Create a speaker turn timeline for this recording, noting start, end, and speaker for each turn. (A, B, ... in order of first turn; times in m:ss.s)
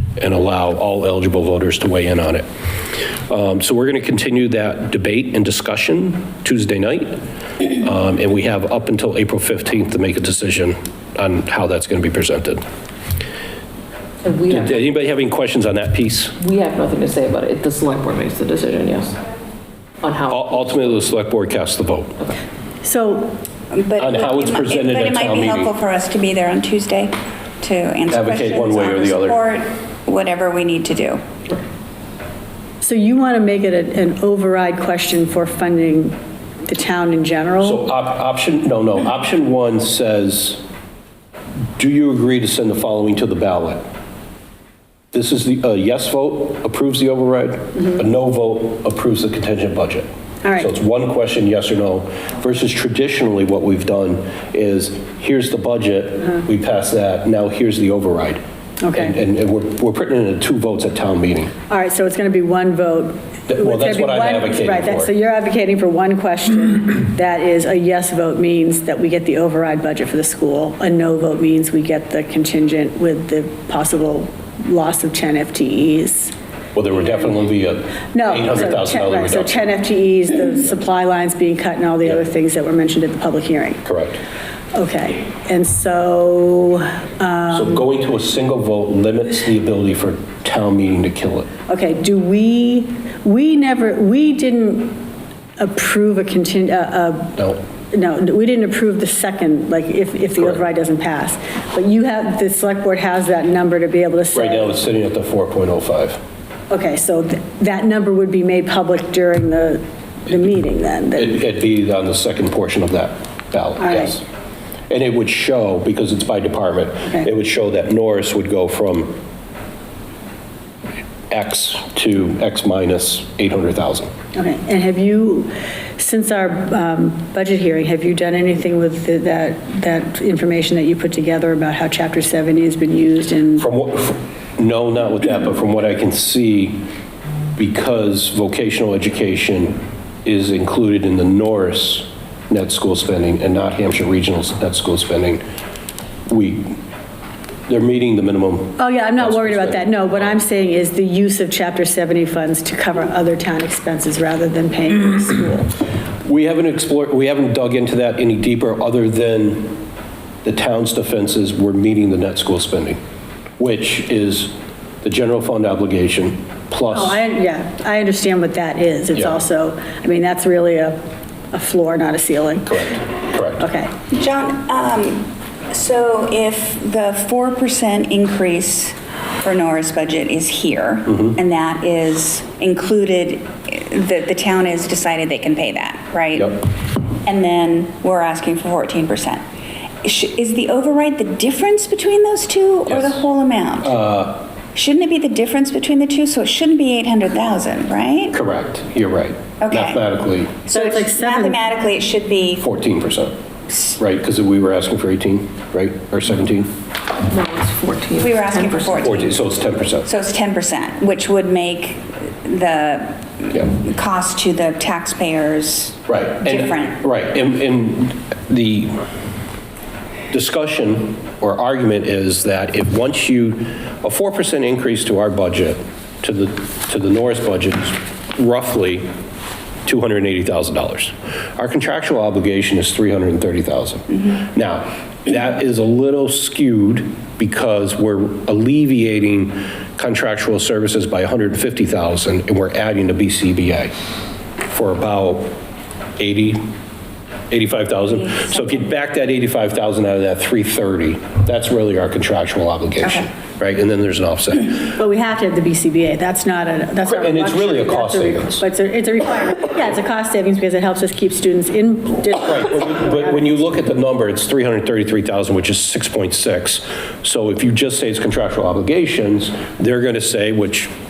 0:00.2-0:02.4 A
0:03.3-0:12.6 A
0:14.2-0:14.6 B
0:14.5-0:16.4 A
0:16.4-0:19.2 B
0:20.0-0:20.6 B
0:20.3-0:22.2 A
0:22.8-0:23.4 C
0:23.7-0:31.3 D
0:24.0-0:25.7 A
0:28.1-0:29.4 A
0:32.8-0:37.8 C
0:37.6-0:40.6 A
0:41.8-0:43.8 A
0:45.1-0:58.4 A
0:50.4-0:50.7 C
0:58.8-0:59.1 C
0:58.9-1:01.5 A
1:01.7-1:16.3 C
1:03.5-1:05.1 A
1:16.7-1:19.7 A
1:18.1-1:23.8 C
1:23.8-1:24.2 A
1:24.7-1:27.9 C
1:27.5-1:31.5 A
1:31.7-1:35.0 C
1:35.6-1:37.4 C
1:37.4-1:37.6 A
1:37.9-1:44.8 C
1:44.3-1:46.2 A
1:46.7-1:51.4 C
1:51.1-1:54.2 A
1:53.8-1:54.1 C
1:54.9-1:59.1 A
2:01.3-2:04.1 A
2:04.3-2:13.7 C
2:13.6-2:16.8 A
2:17.6-2:25.4 A
2:26.3-2:26.8 A
2:27.7-2:30.4 A
2:28.8-2:35.7 C
2:36.2-2:39.8 A
2:40.4-2:43.0 A
2:43.6-2:47.2 A
2:46.9-2:51.0 C
2:51.5-2:53.0 C
2:52.6-2:53.6 A
2:53.6-2:53.9 C
2:54.1-3:06.7 D
3:06.4-3:06.6 A
3:07.2-3:09.4 D
3:10.0-3:14.0 D
3:12.9-3:13.2 A
3:13.8-3:14.4 A
3:14.7-3:18.4 D
3:18.3-3:20.7 A
3:19.6-3:20.0 D
3:20.6-3:22.6 D
3:20.7-3:21.6 C
3:22.6-3:23.4 A
3:24.0-3:26.7 A
3:27.2-3:29.1 B
3:28.2-3:29.3 D
3:29.0-3:30.1 A
3:30.0-3:37.0 D
3:36.1-3:39.0 A
3:40.3-3:49.0 A
3:49.8-4:03.9 A
4:04.7-4:05.5 A
4:06.2-4:06.6 A
4:07.5-4:14.9 A
4:08.1-4:08.8 D
4:14.9-4:23.7 C
4:17.0-4:18.6 A
4:22.4-4:30.9 A